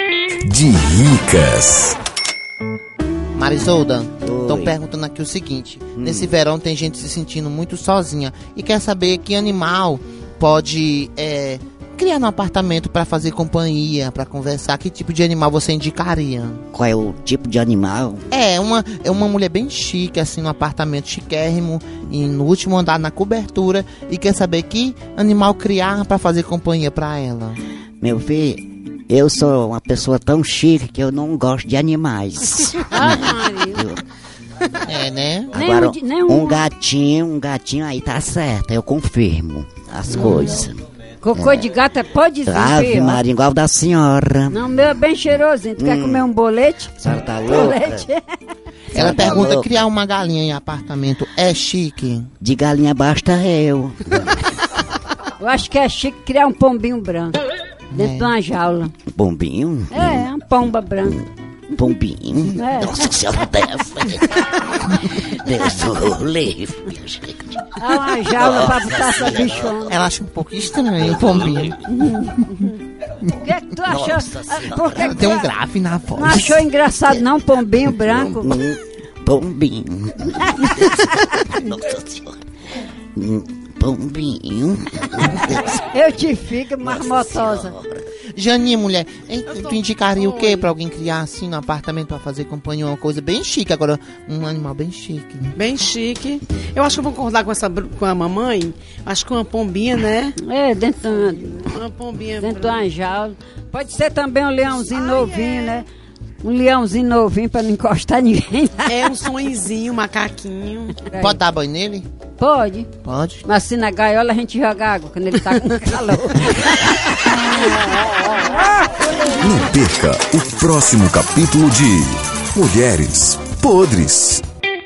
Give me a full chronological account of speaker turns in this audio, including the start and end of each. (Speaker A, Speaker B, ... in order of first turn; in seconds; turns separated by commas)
Speaker A: 0.5-2.0, Speaker B: 3.3-16.6, Speaker C: 4.2-4.8, Speaker C: 6.0-6.3, Speaker C: 16.7-18.3, Speaker B: 18.3-27.6, Speaker C: 28.0-34.0, Speaker D: 32.8-33.8, Speaker B: 34.8-35.5, Speaker C: 35.5-40.8, Speaker D: 35.5-36.6, Speaker D: 40.2-40.6, Speaker D: 41.2-43.2, Speaker C: 41.3-41.7, Speaker C: 42.5-44.6, Speaker D: 44.5-48.2, Speaker C: 45.8-46.3, Speaker C: 47.0-48.1, Speaker C: 48.9-49.8, Speaker B: 48.9-52.3, Speaker C: 52.4-54.5, Speaker D: 55.4-57.4, Speaker B: 57.9-58.3, Speaker D: 57.9-58.9, Speaker C: 59.1-60.3, Speaker D: 59.9-61.2, Speaker C: 61.7-64.4, Speaker D: 62.5-63.0, Speaker C: 65.0-67.7, Speaker D: 67.8-69.9, Speaker C: 68.3-69.9, Speaker B: 69.9-71.8, Speaker C: 71.0-71.8, Speaker D: 71.9-72.7, Speaker D: 73.2-75.5, Speaker C: 73.8-75.2, Speaker B: 75.0-76.6, Speaker D: 76.1-78.6, Speaker C: 77.9-82.4, Speaker C: 83.1-85.8, Speaker D: 85.9-87.7, Speaker C: 86.8-88.1, Speaker B: 88.3-95.6, Speaker E: 89.5-90.7, Speaker E: 95.5-100.3, Speaker D: 100.4-101.7, Speaker E: 101.6-102.8, Speaker D: 102.4-105.9, Speaker D: 106.4-108.9, Speaker E: 108.9-111.0, Speaker D: 111.0-111.4, Speaker B: 111.1-112.1, Speaker D: 112.4-112.9, Speaker B: 113.0-113.4, Speaker D: 113.4-117.2, Speaker A: 119.4-124.4